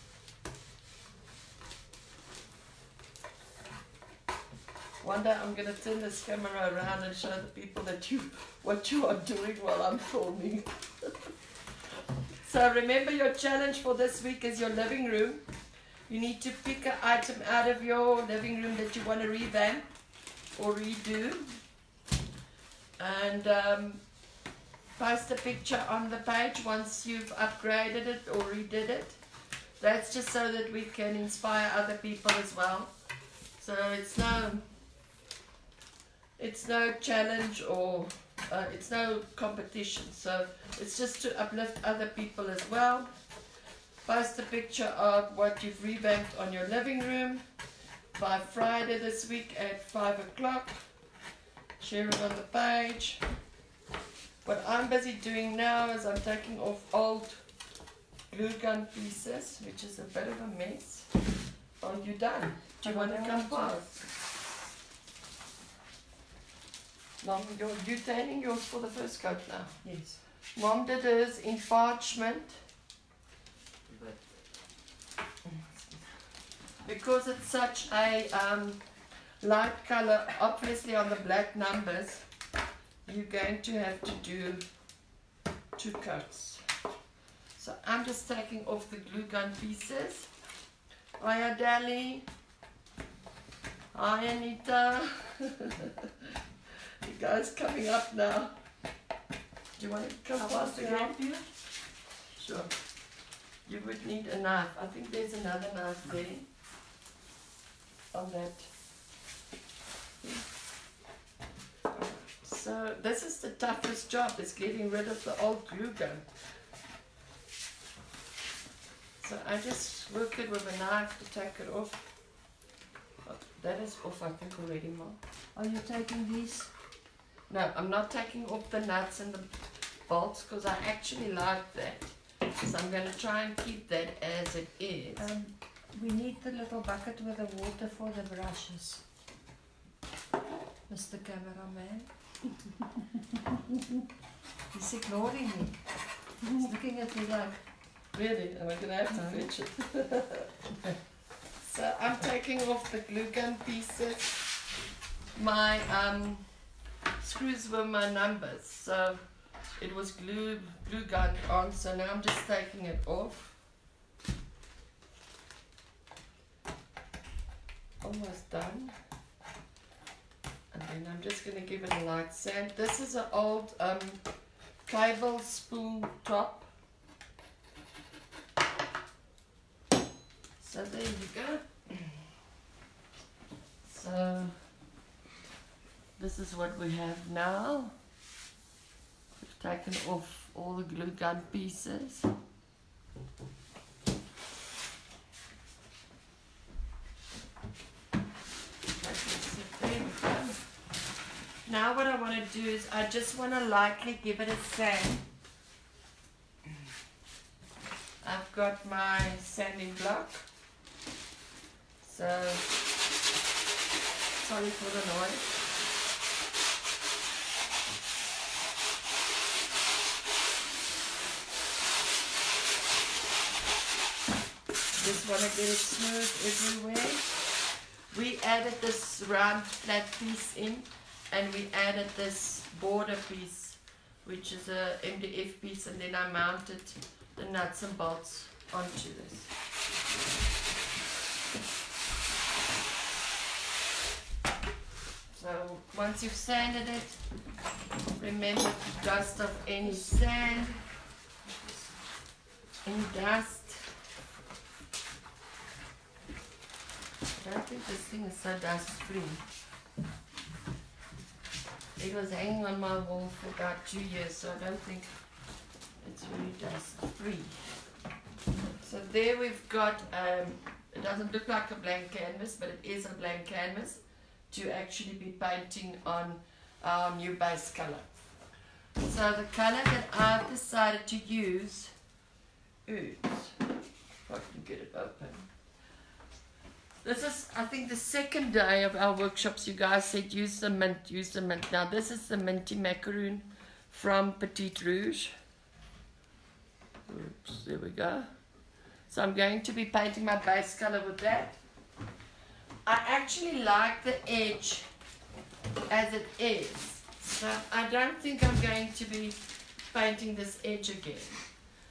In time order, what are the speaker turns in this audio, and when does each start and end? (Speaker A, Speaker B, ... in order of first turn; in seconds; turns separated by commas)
Speaker A: 5.0-11.3, Speaker A: 12.4-15.4, Speaker A: 16.1-19.9, Speaker A: 20.6-21.6, Speaker A: 23.0-24.0, Speaker A: 25.0-29.2, Speaker A: 29.8-32.9, Speaker A: 33.6-34.7, Speaker A: 36.4-43.1, Speaker A: 44.0-47.5, Speaker A: 48.1-50.8, Speaker A: 51.8-53.2, Speaker A: 54.4-57.4, Speaker A: 58.3-61.1, Speaker A: 61.8-64.1, Speaker B: 62.8-63.8, Speaker A: 67.2-69.8, Speaker B: 69.8-70.2, Speaker A: 70.5-72.6, Speaker A: 73.9-74.2, Speaker A: 75.5-76.0, Speaker A: 76.8-78.8, Speaker A: 79.4-82.3, Speaker A: 83.1-84.7, Speaker A: 85.8-86.7, Speaker A: 87.6-90.3, Speaker A: 91.2-92.3, Speaker A: 93.9-96.3, Speaker A: 97.0-98.5, Speaker A: 99.8-101.2, Speaker B: 100.4-101.5, Speaker A: 102.4-102.7, Speaker A: 103.7-106.5, Speaker A: 108.1-108.7, Speaker A: 111.9-116.3, Speaker A: 119.2-122.0, Speaker A: 123.3-125.2, Speaker B: 125.5-126.7, Speaker A: 127.5-135.3, Speaker B: 135.2-139.0, Speaker B: 140.9-142.1, Speaker B: 144.7-145.8, Speaker A: 146.4-146.7, Speaker B: 146.5-147.6, Speaker A: 148.1-151.0, Speaker B: 149.1-149.5, Speaker A: 151.6-154.4, Speaker A: 155.3-156.5, Speaker A: 157.2-159.2, Speaker A: 159.8-163.5, Speaker A: 168.0-168.9, Speaker A: 170.7-174.2, Speaker A: 174.9-176.7, Speaker A: 180.6-182.2, Speaker A: 183.8-184.6, Speaker A: 186.2-187.9, Speaker A: 189.4-192.3, Speaker A: 199.0-200.6, Speaker A: 201.7-205.2, Speaker A: 208.2-210.5, Speaker A: 212.0-212.7, Speaker A: 214.4-215.5, Speaker A: 225.0-227.4, Speaker A: 228.1-239.5, Speaker A: 245.3-247.2, Speaker A: 248.2-250.8, Speaker B: 249.8-250.2, Speaker B: 251.4-251.9, Speaker A: 252.8-253.9, Speaker A: 257.4-259.4, Speaker A: 262.0-265.1, Speaker A: 266.0-267.7, Speaker A: 268.8-278.1, Speaker A: 279.0-281.9, Speaker A: 282.9-283.6, Speaker A: 284.3-285.5, Speaker A: 287.0-295.3, Speaker A: 297.1-298.3, Speaker A: 299.1-301.6, Speaker A: 302.9-304.9, Speaker A: 305.9-311.4